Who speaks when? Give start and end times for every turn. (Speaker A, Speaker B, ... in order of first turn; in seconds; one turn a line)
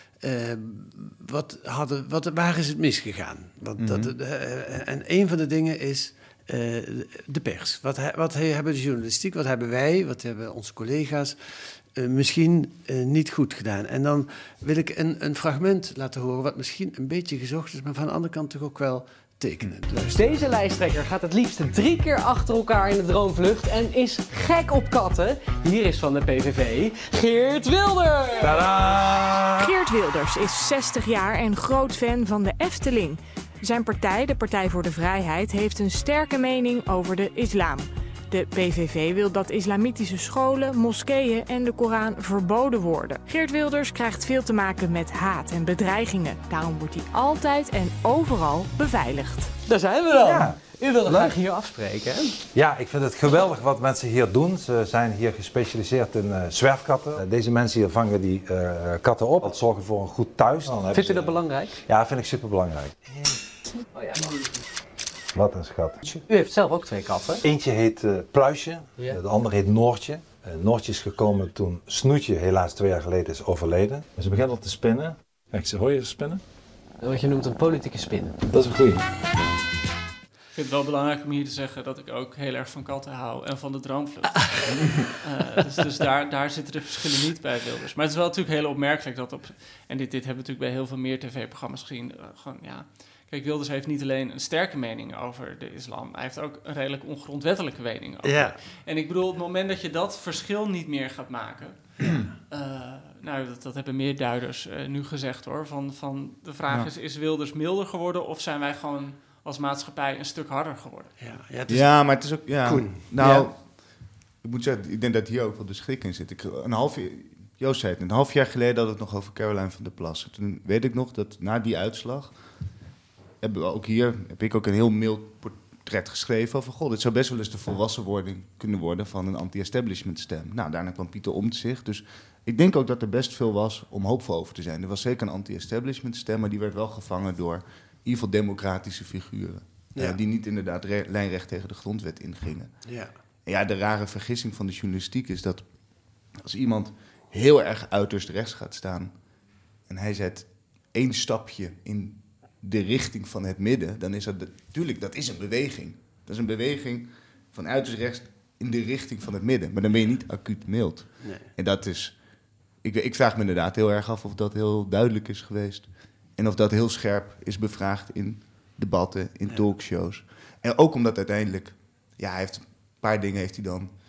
Speaker A: 0.2-20.4
Speaker B: 3.8-4.1
Speaker C: 20.1-28.7
Speaker D: 28.4-29.6
Speaker E: 29.6-49.5
Speaker C: 49.7-52.4
Speaker D: 50.2-51.3
Speaker D: 52.5-63.1
Speaker C: 60.9-61.8
Speaker C: 63.9-64.4
Speaker D: 65.3-66.0
Speaker C: 66.0-67.4
Speaker D: 67.4-76.4
Speaker C: 77.0-78.4
Speaker D: 78.4-79.1
Speaker F: 80.5-111.1
Speaker A: 98.2-98.6
Speaker A: 111.2-113.5
Speaker B: 111.7-113.7
Speaker B: 114.4-122.3
Speaker B: 123.4-142.8
Speaker A: 142.8-143.1
Speaker B: 143.4-145.7
Speaker B: 146.3-149.1
Speaker B: 149.9-162.2
Speaker B: 162.8-173.9